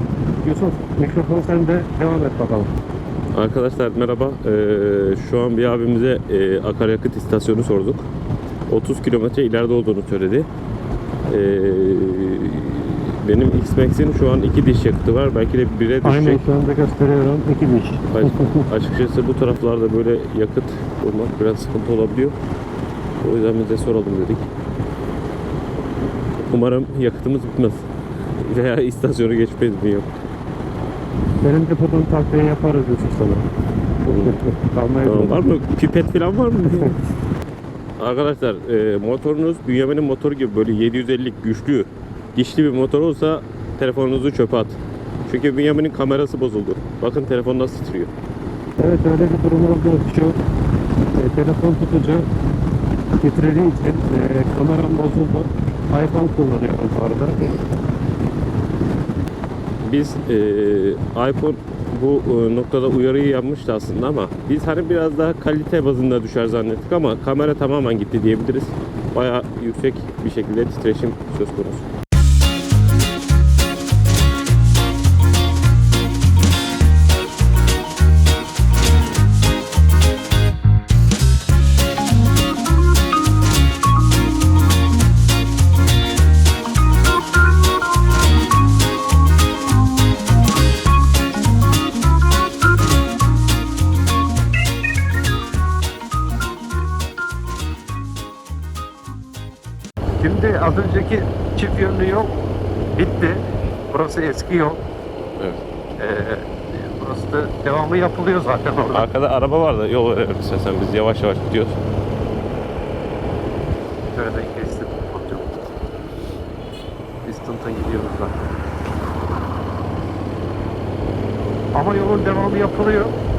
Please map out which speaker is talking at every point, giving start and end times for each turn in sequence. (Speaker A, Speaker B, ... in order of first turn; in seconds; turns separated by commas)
Speaker A: 0.4-2.7, Speaker B: 3.3-8.1, Speaker B: 8.7-10.5, Speaker B: 11.3-16.4, Speaker A: 16.0-18.7, Speaker B: 18.1-22.4, Speaker B: 23.2-24.5, Speaker B: 26.4-27.9, Speaker B: 28.4-30.1, Speaker A: 31.4-33.5, Speaker A: 34.0-35.4, Speaker B: 34.1-34.4, Speaker B: 35.0-36.9, Speaker B: 38.0-48.1, Speaker A: 48.8-50.4, Speaker A: 51.1-52.3, Speaker A: 53.2-57.5, Speaker B: 59.8-71.9, Speaker A: 100.2-102.4, Speaker A: 103.0-104.8, Speaker A: 106.0-109.0, Speaker B: 108.9-111.8, Speaker A: 114.1-115.6, Speaker A: 117.2-118.4, Speaker A: 121.7-123.1